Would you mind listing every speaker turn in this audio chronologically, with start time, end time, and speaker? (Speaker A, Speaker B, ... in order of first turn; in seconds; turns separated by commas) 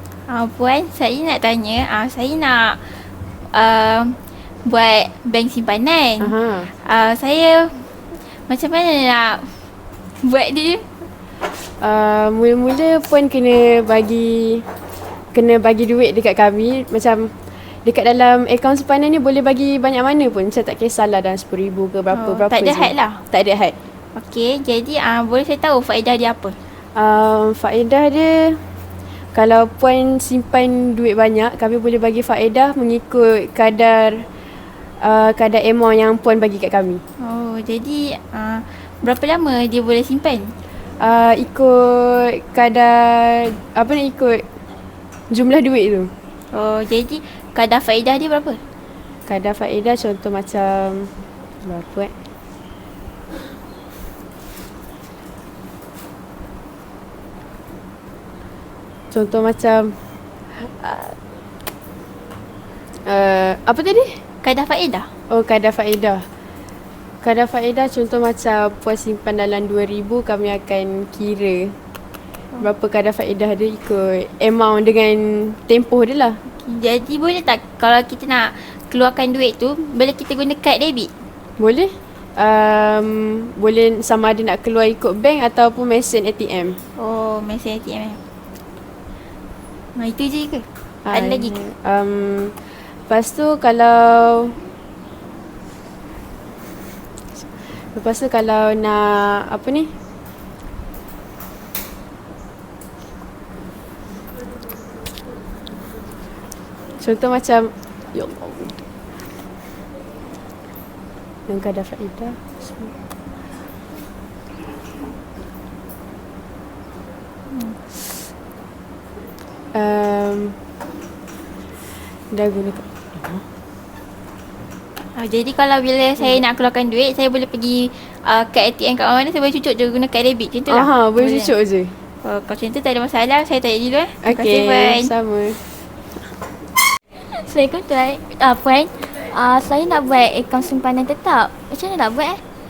Speaker A: 0.3-9.7, Speaker B: 6.2-6.7, Speaker A: 10.2-11.1, Speaker B: 11.6-14.7, Speaker B: 15.3-23.8, Speaker A: 22.1-23.2, Speaker A: 24.1-26.6, Speaker B: 26.9-28.6, Speaker B: 29.3-34.3, Speaker B: 35.0-37.0, Speaker A: 37.2-40.5, Speaker B: 41.0-44.4, Speaker B: 45.3-46.1, Speaker A: 46.5-48.6, Speaker B: 49.3-51.1, Speaker B: 51.6-52.1, Speaker B: 59.1-60.0, Speaker B: 60.5-61.2, Speaker B: 63.0-64.2, Speaker A: 64.4-65.1, Speaker B: 65.3-66.3, Speaker B: 67.2-71.8, Speaker B: 72.6-76.4, Speaker A: 76.5-81.2, Speaker B: 81.6-86.8, Speaker A: 87.0-88.2, Speaker A: 90.0-91.6, Speaker B: 91.0-94.4, Speaker B: 97.8-99.9, Speaker B: 107.0-108.8, Speaker B: 111.5-112.9, Speaker A: 117.5-117.8, Speaker B: 119.7-120.6, Speaker B: 122.3-123.4, Speaker A: 125.2-131.5, Speaker B: 130.7-131.9, Speaker A: 132.2-135.1, Speaker B: 134.2-135.6, Speaker C: 137.3-142.4